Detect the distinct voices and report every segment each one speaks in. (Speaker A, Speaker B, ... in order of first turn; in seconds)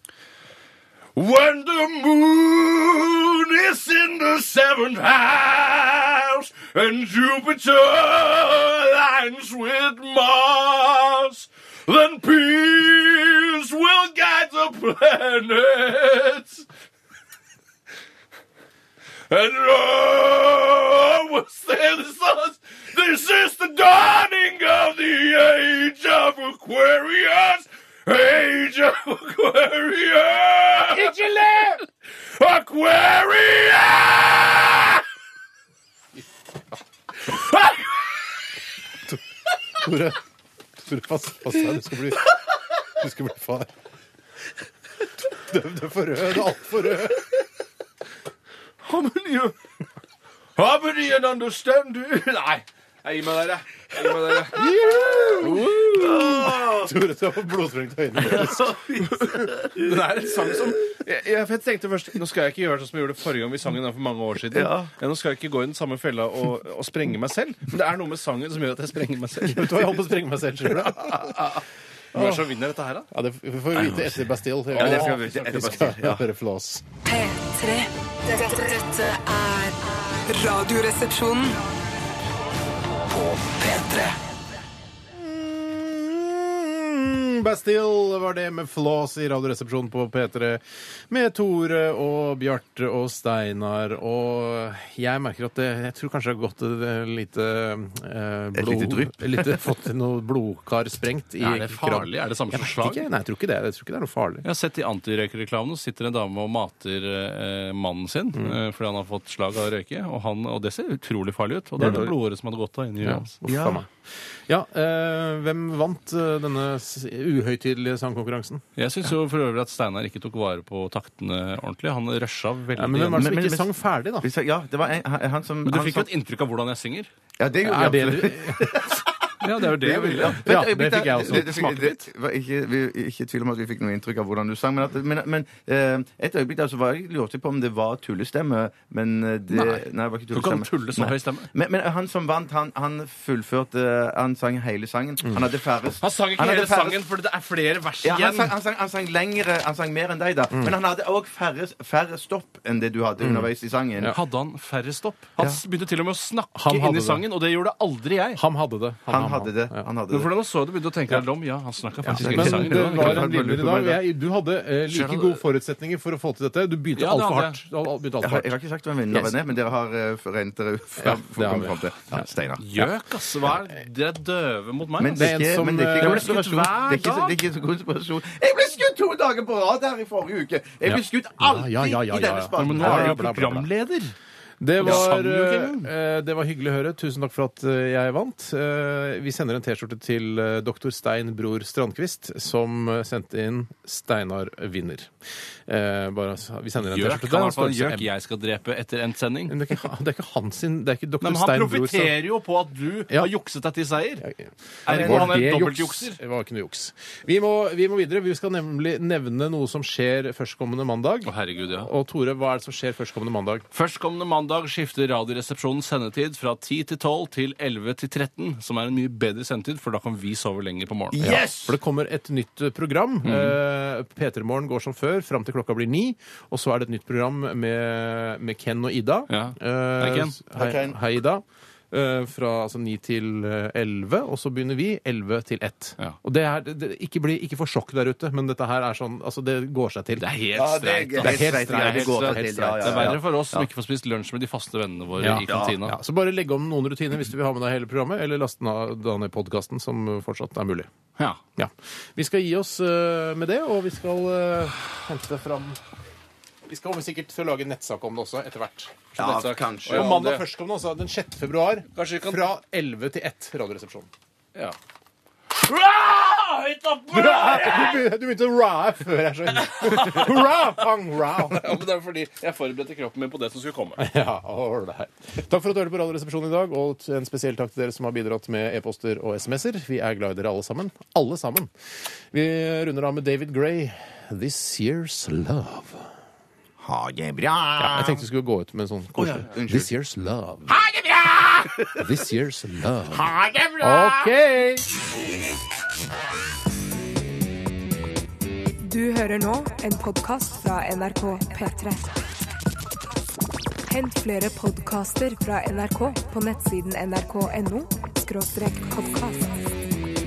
Speaker A: 1.1-16.7, 19.3-31.2, 32.4-35.0, 48.8-49.6, 50.6-54.7, 55.4-56.3, 59.3-70.1, 71.1-71.6, 72.1-73.1, 74.8-75.1, 101.4-103.1, 104.4-113.4, 118.8-123.3, 125.7-127.1, 129.4-130.5, 131.1-132.0, 139.5-139.8, 140.3-141.5, 146.0-148.5, 154.1-158.4, 160.1-163.8, 164.9-165.4, 167.0-167.6, 172.6-175.4, 176.0-177.4, 182.6-184.2, 184.8-185.9, 196.8-199.6, 201.2-204.2, 204.9-206.2, 211.2-211.9, 213.7-221.7, 223.2-223.6, 229.3-230.4, 240.2-246.0, 259.2-260.4, 261.9-262.5, 265.5-268.1, 269.6-270.6, 271.4-274.0
Speaker B: 30.9-31.8, 39.8-40.2, 40.8-42.3, 43.0-43.7, 45.4-47.3, 54.5-59.5, 69.5-71.4, 72.2-72.4, 73.1-76.8, 85.2-104.5, 111.8-112.1, 113.0-113.9, 114.5-118.6, 122.8-124.3, 127.6-128.9, 130.3-131.8, 153.2-153.5, 156.6-157.2, 158.4-159.9, 162.0-168.5, 171.0-172.2, 175.1-176.7, 180.9-183.7, 184.6-195.1, 195.7-198.1, 199.5-202.2, 204.2-213.7, 221.2-240.3, 241.2-243.2, 245.2-250.9, 251.6-255.8, 256.7-259.0, 259.9-264.1, 267.1-271.7, 274.0-281.7, 282.3-286.1, 287.8-290.8, 291.8-294.9
Speaker C: 54.7-57.0, 58.2-59.8, 64.5-64.9, 73.8-74.2, 74.7-76.2, 98.5-99.6, 113.4-113.8, 123.2-126.1, 127.4-147.0, 148.0-154.1, 159.1-160.3, 162.2-164.0, 168.2-172.6, 175.0-183.2, 204.9-205.3, 221.1-221.5, 230.6-231.0, 240.5-243.7, 245.5-245.8, 259.2-260.3, 286.8-288.2, 289.1-289.9, 293.4-293.7
Speaker D: 77.0-81.6, 83.2-84.2
Speaker E: 298.8-302.1, 303.9-309.5